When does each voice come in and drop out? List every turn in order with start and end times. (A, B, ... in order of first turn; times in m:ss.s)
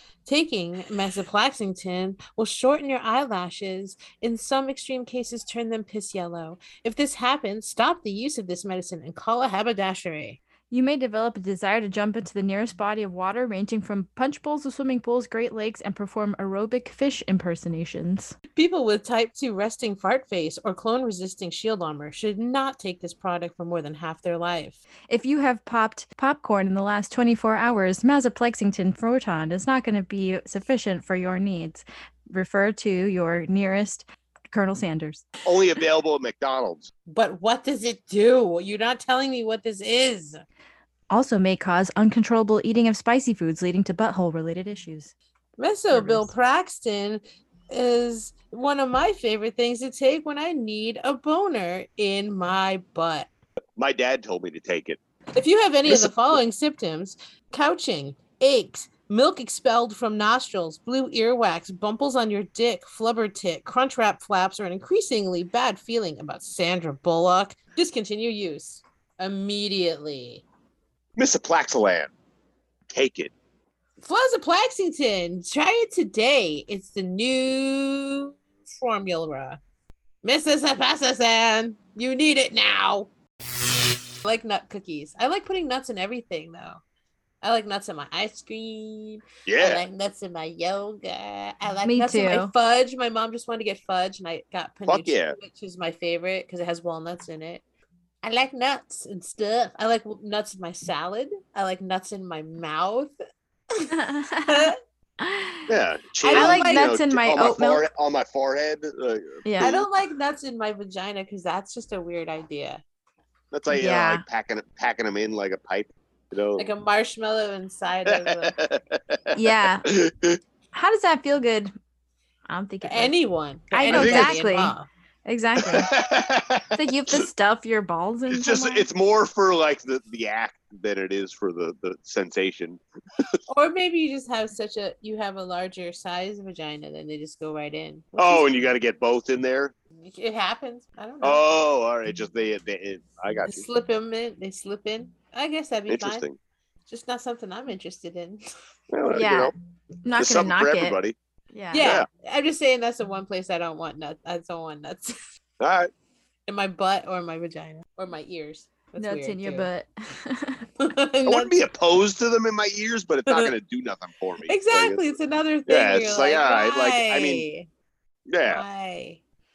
0:00.3-0:10.4 A
0:10.7-0:18.4 B
0:18.6-0:24.8 A
0:25.1-0:35.2 B
0:35.4-0:36.9 C
0:37.1-0:40.4 A
0:41.1-0:45.1 B
0:45.6-0:53.3 A
0:45.9-0:46.3 B
0:53.8-0:55.0 C
0:55.4-1:10.4 A
0:55.9-0:56.4 C
1:11.2-1:12.1 C
1:12.9-1:13.3 C
1:14.0-1:19.6 A
1:20.2-1:23.1 A
1:24.2-1:26.8 A
1:27.4-1:37.6 A
1:29.5-1:29.8 C
1:31.8-1:32.5 B
1:34.9-1:35.4 C
1:38.2-1:43.1 A
1:43.7-1:44.8 A
1:43.9-1:45.7 B
1:45.7-1:49.9 C
1:46.2-1:46.9 A
1:46.3-1:47.9 B
1:49.4-1:49.7 B
1:49.6-1:52.8 A
1:53.5-1:56.7 C
1:53.7-1:54.2 B
1:56.6-1:58.6 A
1:58.1-2:00.4 C
1:59.3-1:59.9 B
2:00.7-2:01.7 B
2:02.5-2:03.1 B
2:02.8-2:04.9 A
2:03.7-2:05.9 B
2:03.9-2:04.4 C
2:05.6-2:07.3 C
2:06.7-2:08.9 B
2:08.3-2:12.8 C
2:13.5-2:18.6 A
2:18.2-2:19.7 C
2:20.0-2:21.4 A
2:21.2-2:23.7 C
2:23.5-2:26.2 A
2:25.9-2:26.4 C
2:26.9-2:28.4 A
2:28.9-2:29.5 C
2:29.1-2:29.5 B
2:30.0-2:31.0 B
2:30.2-2:31.2 C
2:31.5-2:31.9 B
2:31.7-2:35.3 A
2:31.8-2:32.1 C
2:35.6-2:35.9 C
2:36.5-2:39.7 A
2:39.0-2:40.7 B
2:40.8-2:41.6 A
2:41.2-2:45.0 C
2:44.5-2:47.7 A
2:45.7-2:47.4 C
2:48.3-2:48.6 C
2:48.5-2:49.2 A